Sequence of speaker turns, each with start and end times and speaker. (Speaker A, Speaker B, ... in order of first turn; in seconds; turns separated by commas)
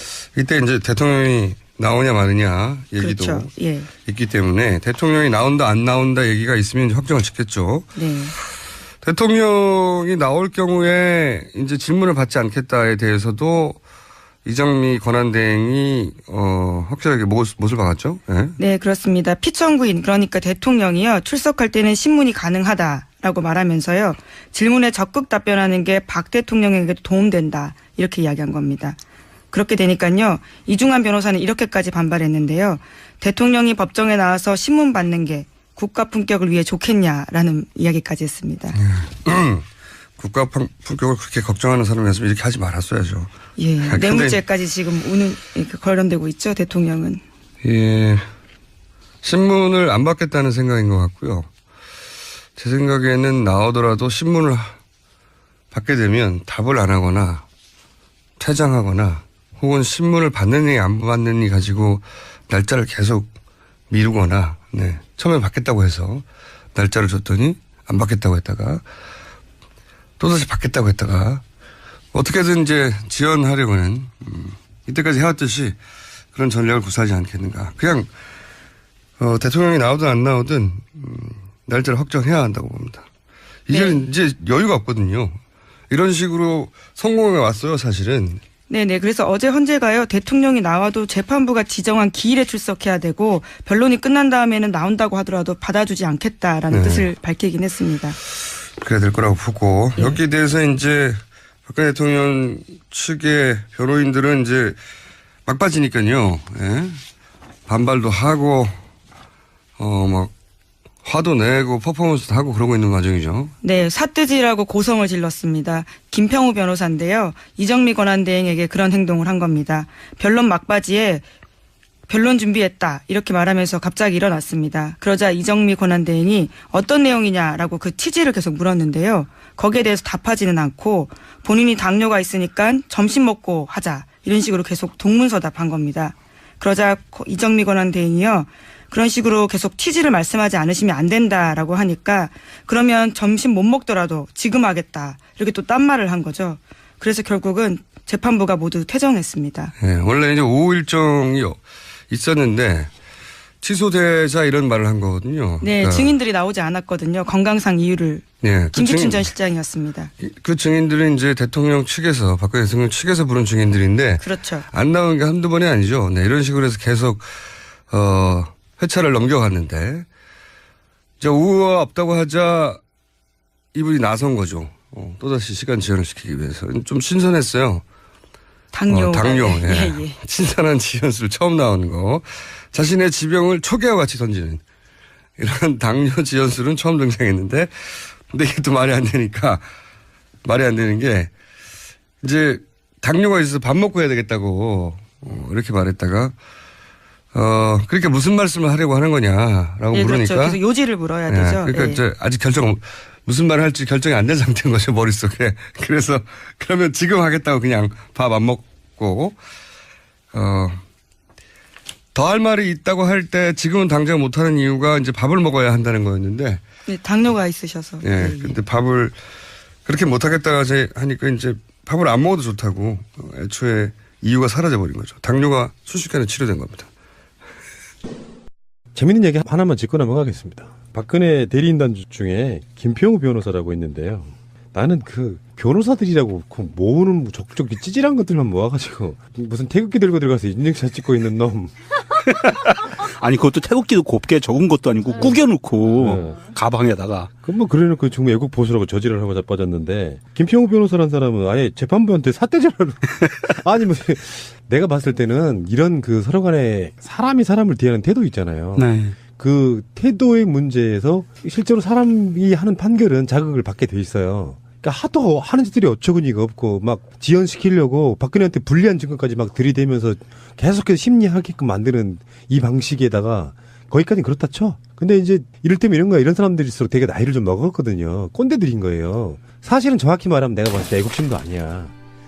Speaker A: 0.3-3.5, Speaker B: 3.0-3.9, Speaker A: 4.0-8.0, Speaker B: 8.0-8.3, Speaker A: 9.0-13.8, Speaker A: 14.4-18.6, Speaker B: 18.6-29.0, Speaker B: 29.5-38.8, Speaker A: 38.8-39.6, Speaker A: 40.2-43.3, Speaker B: 43.6-47.2, Speaker A: 43.8-44.4, Speaker A: 47.6-48.2, Speaker A: 49.2-51.5, Speaker A: 52.6-54.7, Speaker A: 55.7-57.4, Speaker A: 58.4-63.3, Speaker A: 63.9-68.8, Speaker A: 70.2-71.4, Speaker A: 72.1-75.8, Speaker A: 76.3-78.1, Speaker A: 79.2-83.0, Speaker A: 83.7-85.4, Speaker B: 83.7-84.0, Speaker A: 85.9-88.4, Speaker B: 88.7-98.2, Speaker A: 96.7-97.1, Speaker A: 98.8-104.8, Speaker A: 105.5-107.0, Speaker A: 107.7-108.8, Speaker A: 109.8-110.3, Speaker A: 111.0-113.5, Speaker B: 113.6-121.2, Speaker B: 122.1-149.7, Speaker A: 149.8-151.6, Speaker A: 152.1-152.9, Speaker A: 153.6-156.1, Speaker B: 155.6-160.1, Speaker A: 158.4-159.2, Speaker A: 160.2-167.3, Speaker B: 164.2-164.7, Speaker A: 167.9-170.1, Speaker A: 171.2-172.8, Speaker A: 173.7-177.8, Speaker B: 178.7-180.2, Speaker A: 178.9-184.6, Speaker A: 185.4-189.6, Speaker A: 190.4-191.3, Speaker A: 192.2-196.3, Speaker A: 197.3-200.6, Speaker B: 199.9-202.0, Speaker A: 201.3-209.3, Speaker A: 210.3-210.8, Speaker A: 212.1-216.6, Speaker B: 216.9-218.6, Speaker A: 218.0-219.2, Speaker A: 219.8-226.9, Speaker C: 228.9-241.7, Speaker D: 242.2-247.3, Speaker C: 246.0-246.5, Speaker C: 247.4-281.9, Speaker D: 258.7-259.1